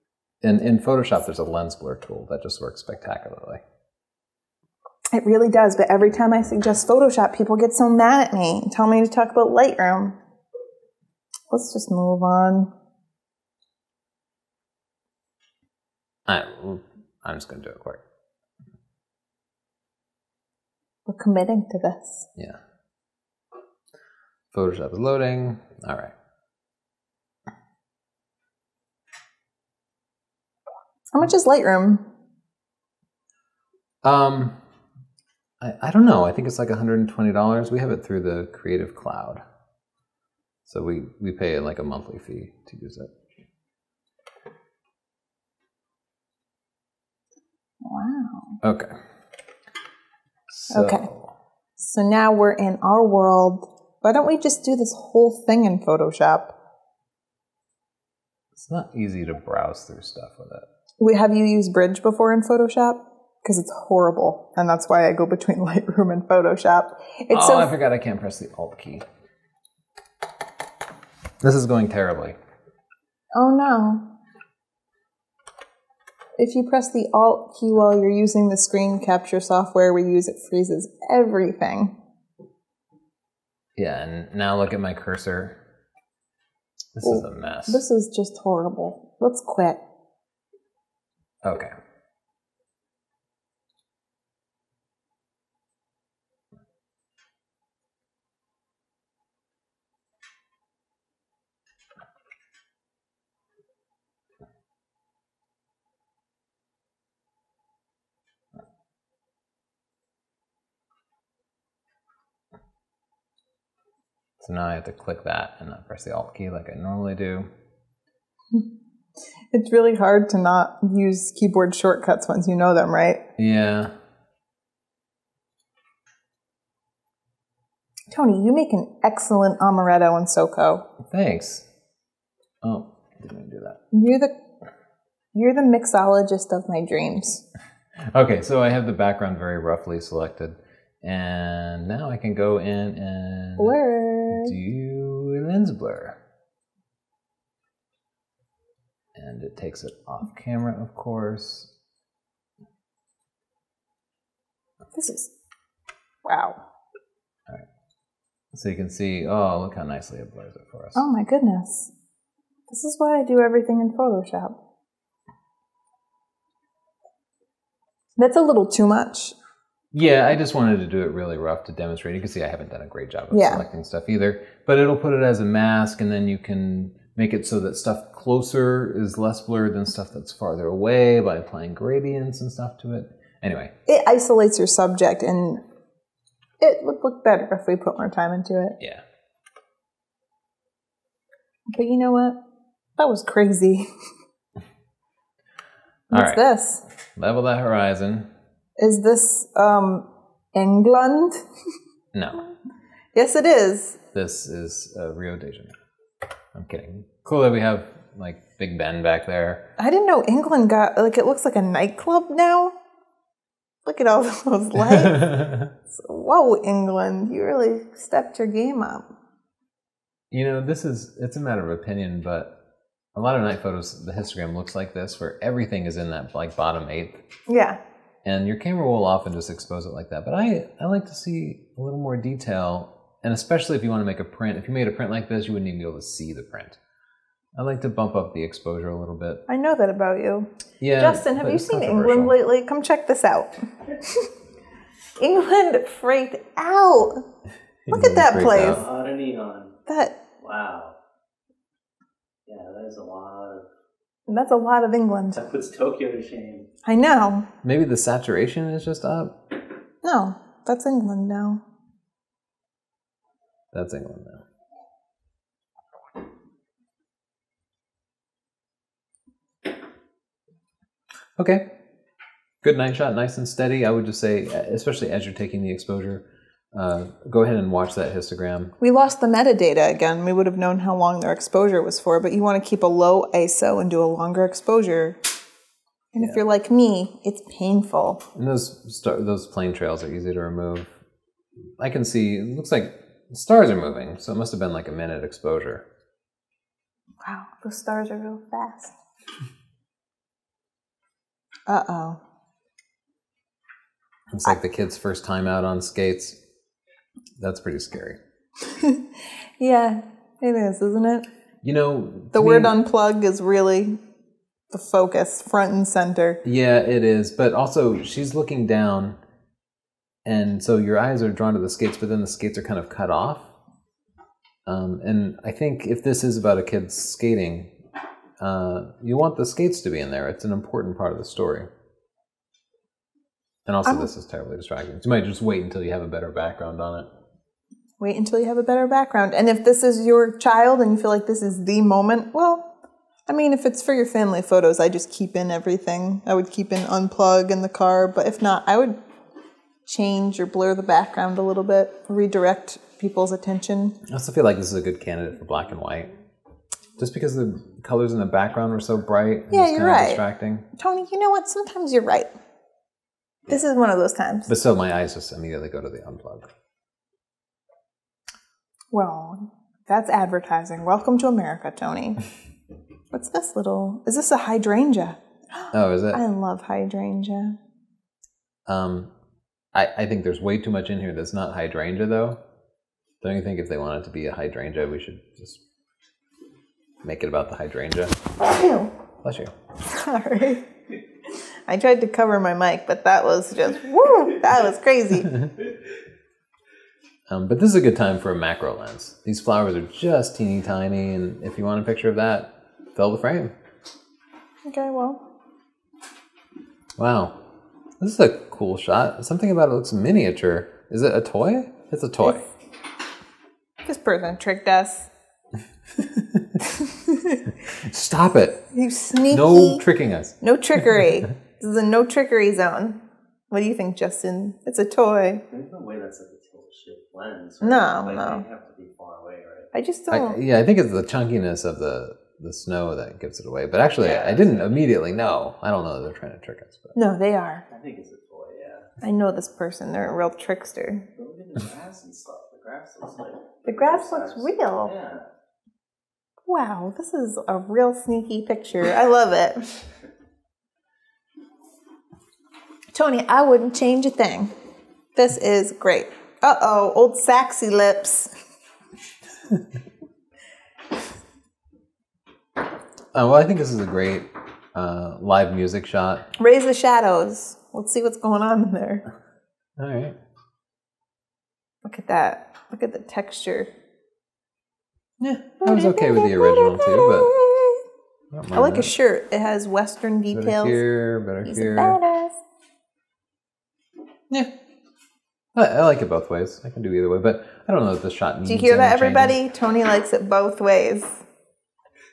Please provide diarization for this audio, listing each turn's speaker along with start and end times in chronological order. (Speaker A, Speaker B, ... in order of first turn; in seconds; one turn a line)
Speaker A: 0.4-3.6
Speaker B: 5.1-10.2
Speaker B: 11.5-12.7
Speaker A: 16.2-18.0
Speaker B: 21.1-22.3
Speaker A: 24.5-26.1
Speaker B: 31.1-32.0
Speaker A: 34.0-34.6
Speaker A: 35.6-39.4
Speaker A: 40.6-43.1
Speaker B: 47.8-48.5
Speaker A: 48.6-49.0
Speaker A: 50.5-51.3
Speaker B: 50.7-51.1
Speaker B: 51.8-56.5
Speaker A: 58.5-60.7
Speaker B: 61.0-67.7
Speaker A: 67.3-69.0
Speaker A: 71.4-72.4
Speaker B: 73.3-74.1
Speaker B: 76.4-82.0
Speaker A: 83.8-85.6
Speaker A: 86.9-87.8
Speaker B: 87.0-89.8
Speaker A: 91.4-91.7
Speaker A: 114.4-117.5
Speaker B: 119.5-123.2
Speaker A: 123.4-123.9
Speaker B: 128.1-130.9
Speaker A: 131.0-131.7
Speaker A: 132.6-133.8
Speaker B: 133.9-134.3
Speaker B: 135.3-137.4
Speaker A: 138.1-143.8
Speaker B: 143.6-144.5
Speaker A: 144.3-146.2
Speaker A: 149.1-151.7
Speaker B: 154.9-155.3
Speaker B: 156.2-156.6
Speaker A: 158.5-161.0
Speaker B: 160.9-161.9
Speaker B: 162.7-164.6
Speaker B: 168.2-169.3
Speaker A: 169.9-183.7
Speaker B: 173.3-173.6
Speaker B: 183.9-185.6
Speaker B: 186.6-188.8
Speaker B: 191.7-192.4
Speaker B: 193.0-193.9
Speaker B: 196.1-196.8
Speaker A: 196.1-196.4
Speaker A: 197.1-198.3
Speaker B: 198.8-201.4
Speaker A: 202.1-202.4
Speaker B: 203.1-204.0
Speaker A: 204.1-205.7
Speaker A: 206.5-209.7
Speaker B: 209.8-212.7
Speaker B: 213.8-219.1
Speaker A: 214.7-215.7
Speaker A: 220.3-222.6
Speaker A: 223.1-227.2
Speaker B: 227.5-227.8
Speaker A: 228.2-236.8
Speaker A: 237.6-239.4
Speaker B: 239.5-244.3
Speaker A: 240.8-242.3
Speaker B: 245.2-247.2
Speaker A: 247.9-248.8
Speaker B: 247.9-248.8
Speaker C: 248.5-249.8
Speaker B: 249.9-250.2
Speaker C: 250.4-250.9
Speaker C: 252.4-253.7
Speaker B: 254.3-255.4
Speaker C: 255.3-256.7
Speaker B: 256.8-257.5
Speaker A: 257.6-259.4
Speaker B: 260.0-261.6
Speaker A: 263.7-264.4
Speaker A: 271.4-271.7
Speaker A: 272.6-278.7
Speaker B: 278.8-285.2
Speaker B: 286.1-288.2
Speaker A: 288.3-290.9
Speaker A: 291.8-295.9
Speaker B: 297.2-298.9
Speaker B: 301.7-302.2
Speaker A: 304.3-306.4
Speaker A: 307.4-308.2
Speaker B: 308.7-309.0
Speaker B: 309.6-311.3
Speaker A: 311.6-312.8
Speaker B: 312.3-314.0
Speaker B: 314.7-316.4
Speaker A: 316.4-319.2
Speaker A: 320.2-323.5
Speaker A: 324.7-327.7
Speaker A: 328.4-331.7
Speaker A: 333.6-337.1
Speaker B: 338.0-342.7
Speaker B: 343.3-349.0
Speaker B: 349.9-354.0
Speaker A: 354.0-356.1
Speaker A: 357.0-360.7
Speaker B: 359.5-360.2
Speaker B: 360.7-362.3
Speaker B: 363.5-364.5
Speaker A: 364.5-366.5
Speaker B: 368.9-372.2
Speaker B: 373.1-377.6
Speaker A: 375.7-376.2
Speaker A: 378.7-379.1
Speaker A: 379.7-382.4
Speaker A: 383.2-385.6
Speaker A: 387.0-388.2
Speaker B: 388.4-388.9
Speaker A: 389.2-389.5
Speaker B: 389.9-390.6
Speaker B: 391.7-395.3
Speaker A: 395.2-395.5
Speaker A: 397.3-403.5
Speaker B: 404.7-405.2
Speaker A: 407.0-407.4
Speaker A: 408.0-412.4
Speaker B: 413.8-415.1
Speaker A: 416.0-416.4
Speaker B: 416.8-417.4
Speaker A: 417.6-418.6
Speaker B: 418.7-419.8
Speaker A: 419.3-421.1
Speaker B: 420.4-423.0
Speaker B: 423.5-425.4
Speaker C: 425.5-429.7
Speaker B: 427.6-428.4
Speaker B: 429.7-430.4
Speaker A: 430.1-436.9
Speaker C: 434.0-434.9
Speaker B: 436.9-437.6
Speaker C: 437.7-438.9
Speaker B: 439.0-441.1
Speaker C: 441.1-445.3
Speaker B: 443.6-444.9
Speaker B: 446.5-449.7
Speaker B: 452.9-454.5
Speaker B: 455.1-458.3
Speaker A: 463.1-466.3
Speaker B: 466.4-469.0
Speaker A: 469.8-470.2
Speaker B: 471.8-473.7
Speaker A: 475.2-477.3
Speaker B: 475.6-477.8
Speaker A: 478.3-478.9
Speaker B: 478.5-480.8
Speaker A: 480.3-482.0
Speaker B: 481.4-482.4
Speaker A: 485.5-489.4
Speaker B: 488.4-491.2